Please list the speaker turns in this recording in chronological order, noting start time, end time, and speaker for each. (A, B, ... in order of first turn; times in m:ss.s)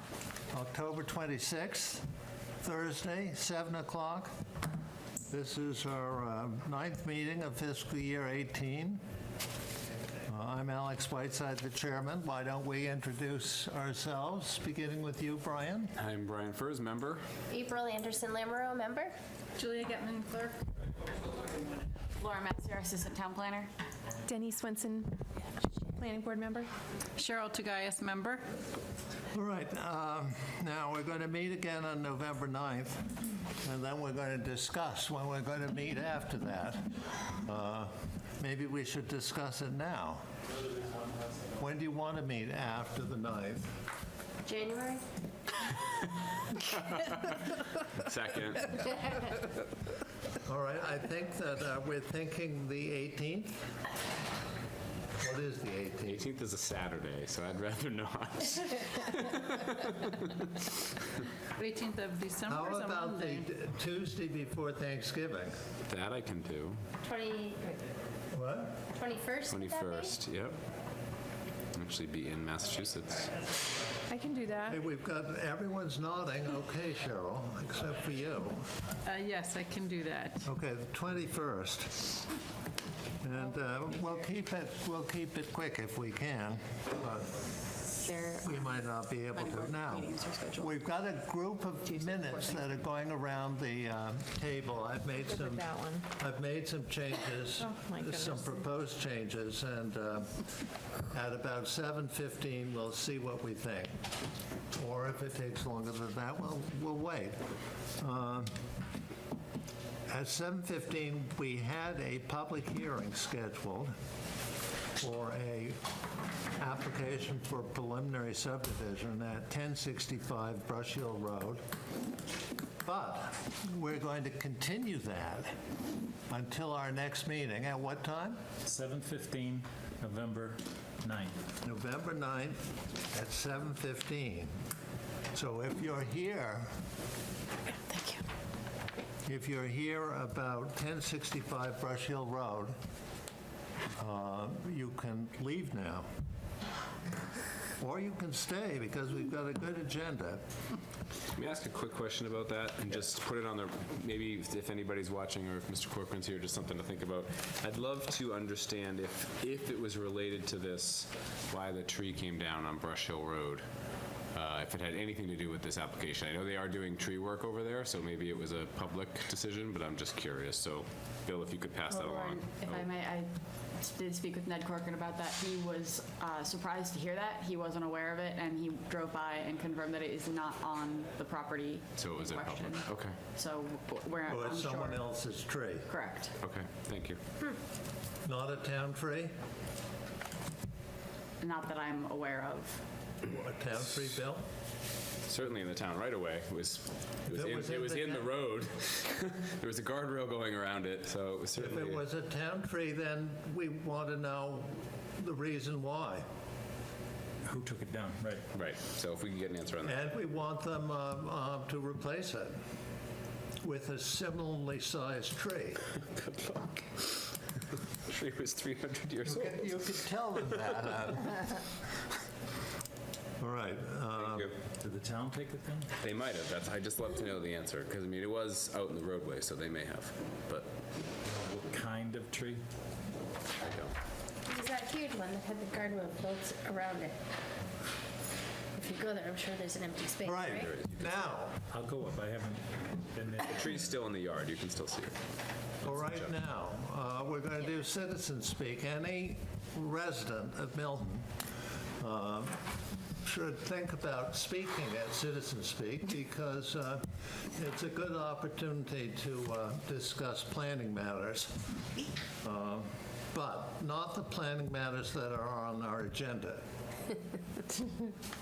0:00.5-0:02.0 A
0:02.6-0:04.3 A
0:05.3-0:09.0 A
0:10.2-0:15.9 A
0:16.0-0:17.2 B
0:17.5-0:19.2 C
0:19.6-0:20.6 D
0:22.2-0:23.7 E
0:24.2-0:26.7 F
0:27.2-0:28.4 D
0:29.3-0:40.2 A
0:41.6-0:43.8 A
0:44.4-0:45.0 C
0:46.6-0:49.0 B
0:50.4-0:53.7 A
0:55.2-0:56.2 A
0:56.1-1:01.1 B
1:01.6-1:03.5 D
1:02.4-1:05.6 A
1:05.8-1:06.8 B
1:07.0-1:07.8 C
1:08.3-1:08.8 A
1:08.9-1:10.1 C
1:09.5-1:10.6 B
1:11.7-1:13.4 B
1:14.1-1:14.8 F
1:14.7-1:18.7 A
1:19.0-1:20.4 D
1:20.4-1:22.2 A
1:23.2-1:27.4 A
1:28.4-1:40.4 A
1:29.5-1:30.7 E
1:35.4-1:36.1 F
1:37.6-1:38.5 F
1:41.1-1:43.9 A
1:44.7-1:47.4 A
1:48.0-1:48.6 A
1:50.1-1:53.9 A
1:55.0-1:55.8 A
1:56.5-2:01.6 A
2:02.8-2:05.6 A
2:06.3-2:08.4 A
2:08.6-2:11.4 G
2:11.6-2:14.6 A
2:15.3-2:16.7 A
2:17.9-2:18.2 E
2:19.2-2:22.8 A
2:24.0-2:26.1 A
2:27.8-2:30.4 A
2:31.3-2:43.6 B
2:44.3-2:52.9 B
2:52.1-3:05.3 E
3:02.0-3:03.2 B
3:04.2-3:05.9 A
3:05.8-3:06.3 E
3:06.4-3:07.2 B
3:08.2-3:09.3 A
3:11.4-3:12.8 E
3:13.2-3:14.5 A
3:15.2-3:22.0 B
3:17.3-3:18.3 A
3:21.6-3:26.3 A
3:27.4-3:28.4 G
3:28.5-3:30.0 B
3:29.8-3:32.6 A
3:33.6-3:35.8 A
3:35.9-3:37.4 B
3:37.9-3:41.2 B
3:39.2-3:41.6 A
3:43.4-3:44.5 A
3:44.1-3:44.6 B
3:44.7-3:45.9 G
3:46.0-3:50.8 B
3:51.4-3:52.6 G
3:53.6-3:53.9 B
3:54.4-3:57.2 C
3:58.7-4:00.7 C
4:00.2-4:01.6 A
4:00.4-4:01.3 B
4:01.7-4:03.8 G
4:03.5-4:05.2 B
4:05.8-4:06.2 B
4:05.8-4:11.3 A
4:12.0-4:12.6 A
4:13.2-4:21.5 A
4:22.4-4:26.6 A